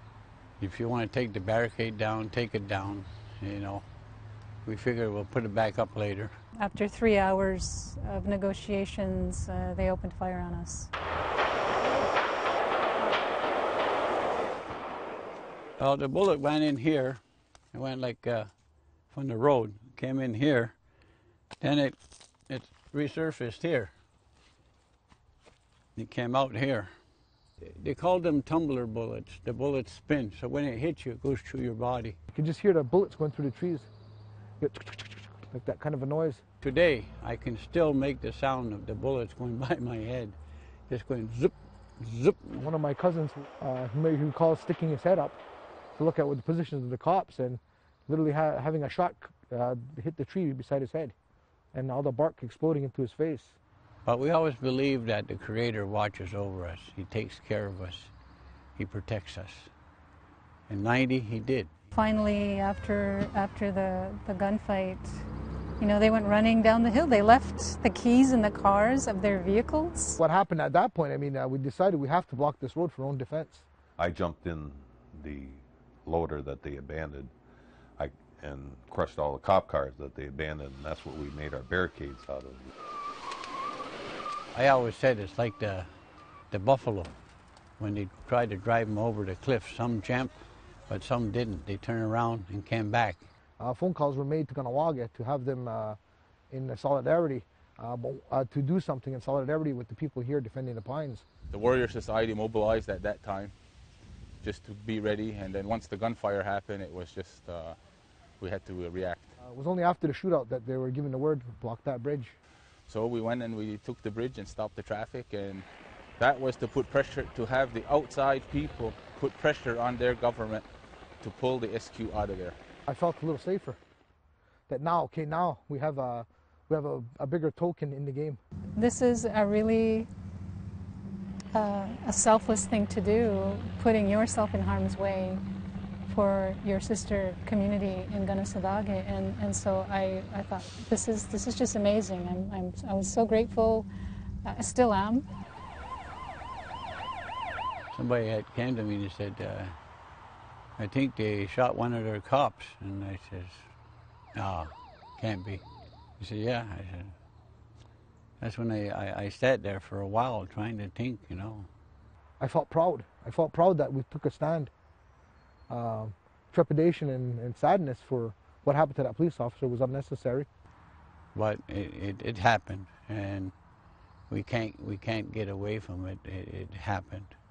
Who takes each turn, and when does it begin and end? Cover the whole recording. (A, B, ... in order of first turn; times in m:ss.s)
0:00.6-0:03.8 A
0:04.6-0:06.3 A
0:06.6-0:10.9 B
0:15.8-0:17.2 A
0:17.7-0:18.5 A
0:19.1-0:20.7 A
0:21.6-0:22.0 A
0:22.5-0:23.9 A
0:26.0-0:26.9 A
0:27.6-0:32.2 A
0:32.3-0:33.9 C
0:34.6-0:36.4 C
0:36.6-0:40.4 A
0:40.9-0:42.6 A
0:42.6-0:45.4 C
0:46.0-0:51.1 C
0:51.7-0:53.6 C
0:54.0-0:58.1 A
0:58.8-0:59.7 A
1:00.7-1:01.7 A
1:01.9-1:05.2 B
1:05.8-1:10.2 B
1:10.2-1:13.7 C
1:14.0-1:17.3 D
1:18.0-1:22.7 D
1:24.5-1:25.9 A
1:26.5-1:27.1 A
1:27.8-1:33.2 A
1:33.6-1:36.0 C
1:36.5-1:41.2 C
1:41.5-1:43.5 E
1:44.4-1:47.8 E
1:48.4-1:49.3 E
1:49.4-1:52.4 C
1:52.9-1:55.7 E
1:56.2-2:00.7 E
2:01.2-2:02.6 E
2:02.9-2:03.8 C
2:04.7-2:08.4 C
2:08.8-2:10.1 B
2:11.5-2:15.4 B
2:16.1-2:23.9 B
2:24.4-2:25.2 B
2:27.9-2:29.8 A
2:30.8-2:33.7 A
2:34.3-2:35.6 A
2:36.2-2:37.1 A
2:38.4-2:41.7 A
2:42.4-2:44.7 C
2:45.7-2:50.5 C
2:51.4-2:53.5 A
2:54.3-2:57.4 A